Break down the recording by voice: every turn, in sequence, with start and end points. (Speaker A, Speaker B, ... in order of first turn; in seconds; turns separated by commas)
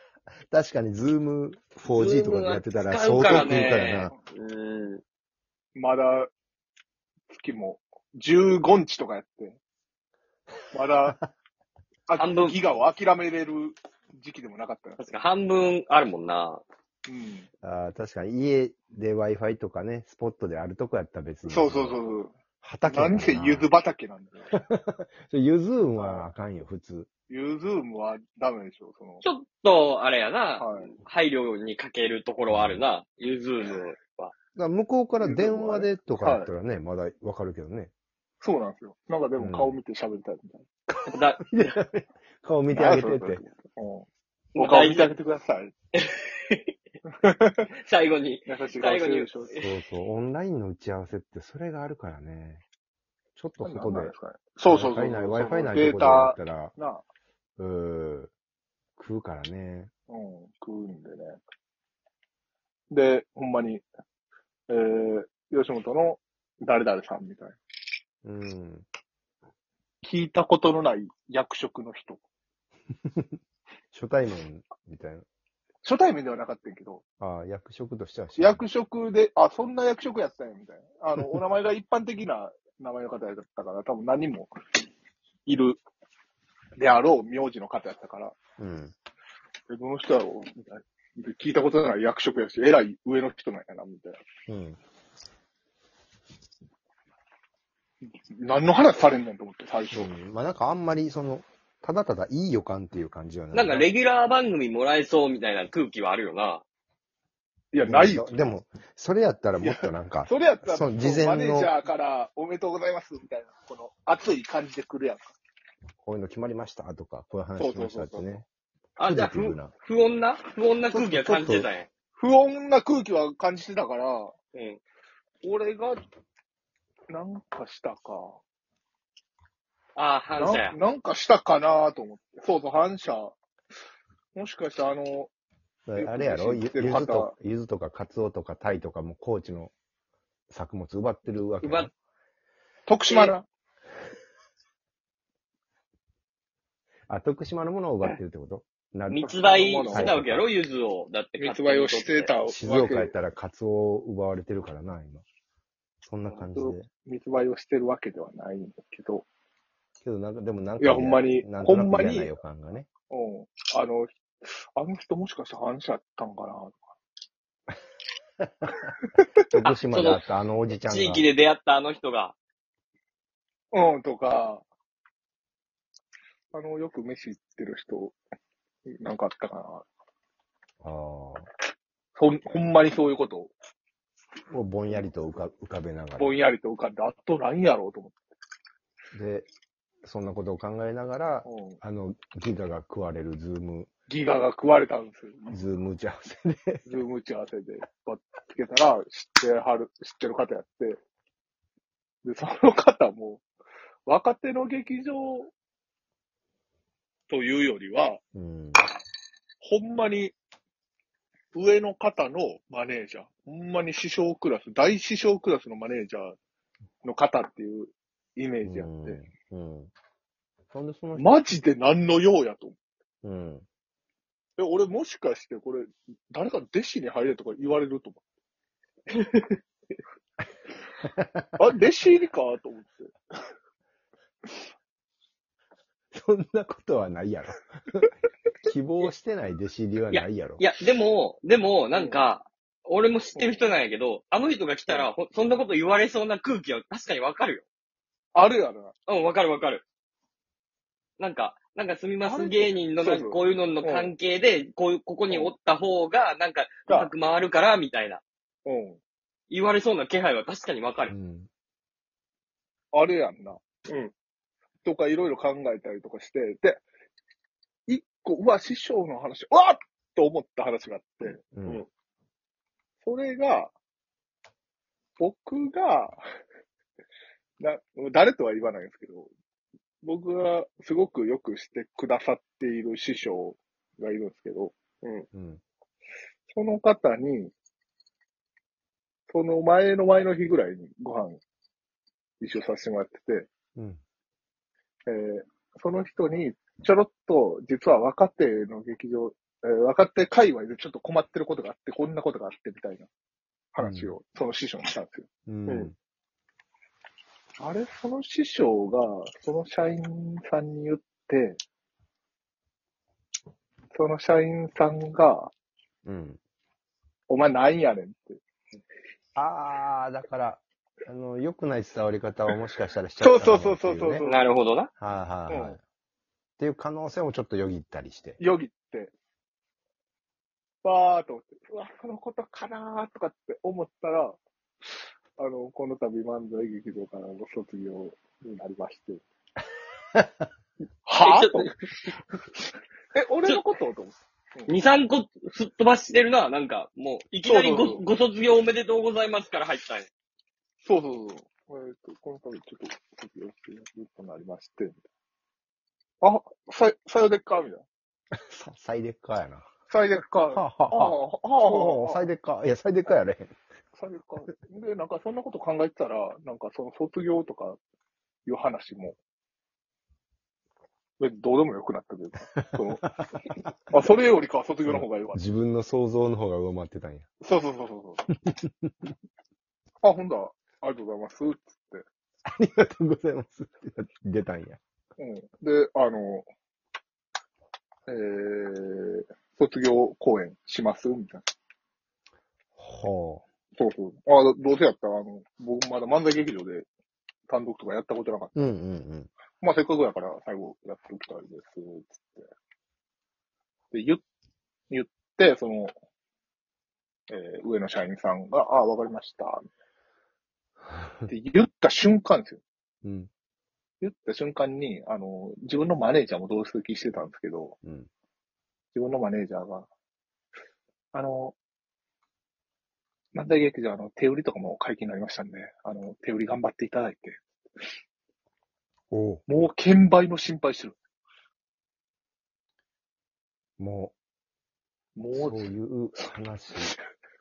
Speaker A: 0.5-4.1, Speaker B: 1.9-5.0, Speaker C: 5.7-6.3, Speaker C: 7.3-9.6, Speaker C: 10.7-11.2, Speaker C: 12.1-15.1, Speaker B: 12.2-12.6, Speaker B: 15.0-16.6, Speaker C: 17.1-17.5, Speaker A: 17.6-22.0, Speaker C: 21.4-22.3, Speaker A: 22.6-23.7, Speaker C: 22.9-24.6, Speaker A: 24.5-27.1, Speaker C: 26.0-26.3, Speaker C: 27.3-29.2, Speaker B: 29.2-34.3, Speaker C: 30.6-30.9, Speaker A: 32.5-32.8, Speaker A: 34.5-37.9, Speaker C: 35.2-36.5, Speaker C: 38.4-40.7, Speaker A: 39.4-39.8, Speaker A: 40.9-43.4, Speaker B: 41.1-41.4, Speaker C: 42.7-45.7, Speaker B: 44.5-45.1, Speaker B: 45.9-46.7, Speaker C: 47.2-47.7, Speaker B: 47.8-49.7, Speaker C: 48.5-49.6, Speaker A: 49.6-52.6, Speaker A: 53.4-54.1, Speaker C: 53.6-57.0, Speaker A: 54.7-56.8, Speaker A: 57.6-58.3, Speaker A: 59.0-59.9, Speaker C: 60.1-61.4, Speaker C: 62.9-63.8, Speaker C: 64.7-67.6, Speaker A: 68.2-68.9, Speaker C: 70.0-72.2, Speaker A: 73.9-75.2, Speaker C: 75.8-77.0, Speaker A: 77.2-78.6, Speaker C: 78.4-84.5, Speaker C: 85.5-85.8, Speaker C: 86.8-88.3, Speaker A: 88.6-88.9, Speaker C: 89.7-94.2, Speaker A: 94.5-94.8, Speaker C: 98.3-100.1, Speaker A: 99.9-103.9, Speaker B: 103.5-106.6, Speaker C: 107.7-108.5, Speaker A: 107.8-111.7, Speaker C: 109.6-115.3, Speaker A: 116.0-118.4, Speaker C: 117.6-118.4, Speaker B: 119.0-121.9, Speaker A: 119.0-119.7, Speaker A: 120.9-121.7, Speaker C: 122.2-124.3, Speaker B: 124.5-124.8, Speaker C: 125.4-126.0, Speaker C: 127.1-128.4, Speaker B: 129.9-130.8, Speaker C: 130.3-133.3, Speaker C: 134.3-135.3, Speaker A: 135.9-139.7, Speaker C: 135.9-137.3, Speaker A: 140.5-141.9, Speaker B: 141.6-141.9, Speaker C: 142.9-143.4, Speaker B: 143.1-143.3, Speaker A: 147.1-149.4, Speaker B: 149.1-152.3, Speaker C: 149.4-150.2, Speaker A: 149.9-150.5, Speaker C: 151.4-153.1, Speaker A: 152.5-155.2, Speaker A: 156.0-156.9, Speaker C: 156.3-159.2, Speaker A: 160.0-162.9, Speaker C: 160.8-162.3, Speaker C: 163.1-166.9, Speaker A: 168.4-168.7, Speaker A: 169.5-171.3, Speaker B: 169.9-170.2, Speaker B: 170.8-172.3, Speaker C: 173.7-174.6, Speaker C: 176.5-178.1, Speaker C: 178.9-179.8, Speaker A: 180.8-181.5, Speaker C: 182.1-183.5, Speaker A: 184.5-186.3, Speaker C: 186.2-188.1, Speaker A: 189.1-189.5, Speaker A: 190.0-193.9, Speaker C: 191.4-191.8, Speaker C: 194.1-195.7, Speaker A: 195.5-197.0, Speaker C: 196.8-201.0, Speaker C: 202.2-203.4, Speaker C: 204.1-205.5, Speaker C: 207.3-208.2, Speaker A: 208.3-208.8, Speaker C: 209.6-210.3, Speaker C: 211.5-216.3, Speaker C: 217.0-219.2, Speaker A: 218.6-219.9, Speaker A: 220.7-221.3, Speaker C: 221.2-222.8, Speaker A: 223.2-223.7, Speaker C: 224.6-228.2, Speaker B: 229.1-229.6, Speaker A: 231.0-231.5, Speaker C: 231.6-233.1, Speaker A: 236.1-238.1, Speaker A: 238.6-240.6, Speaker B: 240.1-247.7, Speaker C: 241.9-242.2, Speaker C: 243.3-243.7, Speaker C: 248.3-248.9, Speaker B: 249.1-249.8, Speaker B: 251.2-258.2, Speaker C: 252.2-254.1, Speaker C: 255.3-255.5, Speaker C: 256.9-257.1, Speaker C: 258.6-259.0, Speaker B: 259.5-261.1, Speaker A: 261.1-261.5, Speaker C: 262.9-263.6, Speaker C: 264.8-266.8, Speaker C: 267.9-271.4, Speaker A: 271.5-271.8, Speaker C: 273.0-273.7, Speaker C: 275.2-276.2, Speaker C: 277.6-279.3, Speaker C: 280.0-284.7, Speaker A: 285.3-285.6, Speaker C: 286.5-287.5, Speaker C: 289.3-291.4, Speaker C: 292.4-293.5, Speaker A: 293.8-294.0, Speaker C: 295.1-303.1, Speaker C: 303.7-305.3, Speaker A: 303.8-304.1, Speaker A: 305.5-305.9, Speaker C: 307.6-311.6, Speaker C: 313.9-315.5, Speaker A: 316.0-316.4, Speaker C: 317.3-318.4, Speaker A: 319.4-324.2, Speaker C: 323.2-324.4, Speaker B: 324.2-324.9, Speaker A: 325.0-325.8, Speaker C: 325.5-325.8, Speaker A: 326.6-328.4, Speaker C: 328.4-329.1, Speaker C: 330.8-334.4, Speaker C: 335.4-339.2, Speaker C: 341.0-341.7, Speaker B: 341.2-341.7, Speaker C: 343.1-344.7, Speaker B: 344.7-350.1, Speaker C: 347.4-348.0, Speaker C: 350.8-355.0, Speaker C: 356.2-357.8, Speaker A: 358.3-359.7, Speaker C: 359.9-362.3, Speaker A: 360.5-363.5, Speaker C: 363.9-367.8, Speaker C: 368.4-369.1, Speaker C: 371.2-375.4, Speaker A: 372.6-373.7, Speaker A: 374.8-377.3, Speaker C: 377.4-378.3, Speaker A: 378.4-378.9, Speaker C: 380.0-382.0, Speaker A: 382.5-384.8, Speaker C: 385.2-386.4, Speaker C: 388.1-391.4, Speaker A: 392.8-393.4, Speaker C: 393.8-396.9, Speaker C: 397.5-398.7, Speaker A: 398.5-399.3, Speaker C: 399.6-402.5, Speaker C: 403.9-404.2, Speaker C: 404.9-405.9, Speaker C: 407.3-409.6, Speaker C: 411.3-412.6, Speaker A: 413.0-413.3, Speaker C: 414.0-417.8, Speaker A: 417.8-418.1, Speaker C: 418.9-419.9, Speaker C: 421.1-421.6, Speaker C: 423.3-427.4, Speaker A: 429.1-429.4, Speaker C: 429.5-430.9, Speaker A: 433.8-434.1, Speaker C: 435.1-435.7, Speaker A: 435.3-436.9